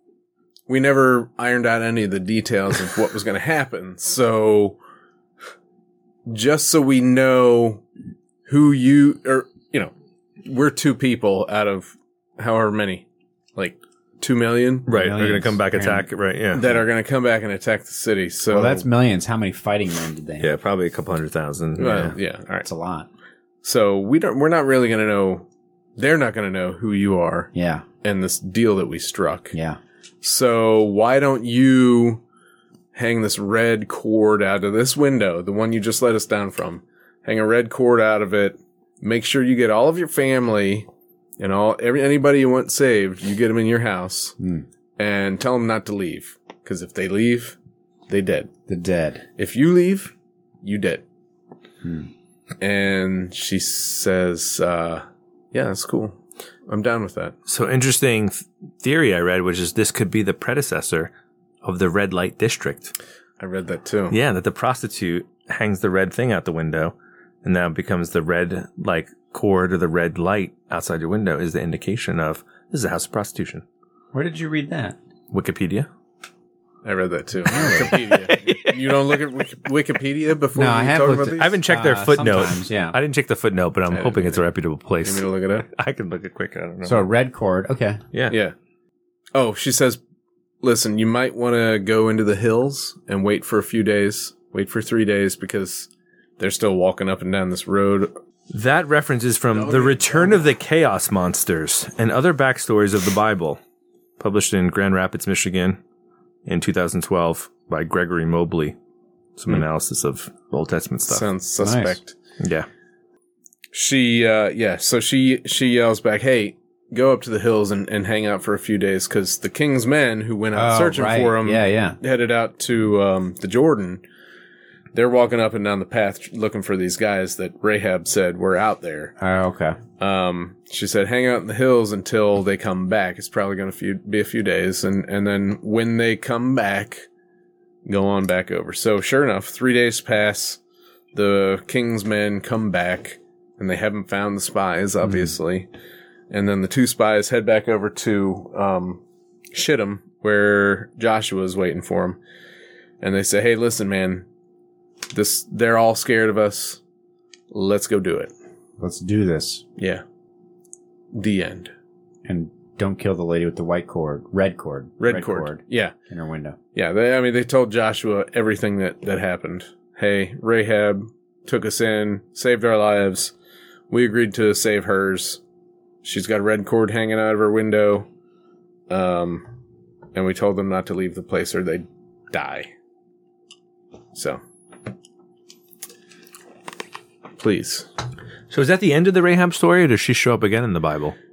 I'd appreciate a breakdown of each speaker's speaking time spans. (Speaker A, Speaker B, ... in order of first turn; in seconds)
Speaker A: 0.7-4.8, 6.3-7.8, 8.5-9.9, 10.4-14.9, 16.6-18.9, 21.8-22.7, 23.6-27.5, 28.0-29.6, 30.2-32.2, 32.9-40.9, 41.4-44.4, 45.0-47.6, 48.1-48.5, 49.4-51.0, 52.6-57.4, 63.4-64.2, 76.8-81.6, 83.9-84.4, 85.0-85.7, 88.3-88.5, 89.3-90.0, 90.6-98.1, 99.5-100.5, 111.1-112.1, 113.7-124.0, 124.9-129.2, 130.0-137.1, 137.8-140.6, 141.1-145.7, 146.3-149.0, 149.5-152.2, 153.0-154.2, 155.1-156.8, 157.5-158.3, 159.8-160.0, 161.1-161.7, 165.0-165.9, 166.8-173.3, 173.9-175.4, 176.0-178.1, 178.9-179.5, 180.1-182.7, 184.1-184.4, 187.4-187.9
Speaker B: 14.9-16.1, 18.5-20.5, 22.6-23.1, 27.5-27.9, 29.5-29.8, 44.4-44.7, 48.7-49.3, 51.8-52.1, 74.1-75.0, 77.5-78.1, 80.5-83.0, 86.8-88.0, 111.6-112.0, 120.5-122.0, 129.2-129.8, 145.0-145.3, 158.8-159.7, 162.3-166.6
Speaker C: 14.9-16.7, 20.4-22.2, 57.5-61.1, 61.6-62.9, 64.1-73.6, 75.3-75.9, 77.9-78.9, 81.4-87.1, 98.5-103.6, 104.2-105.8, 106.5-108.8, 109.4-111.3, 112.4-112.7, 188.5-191.2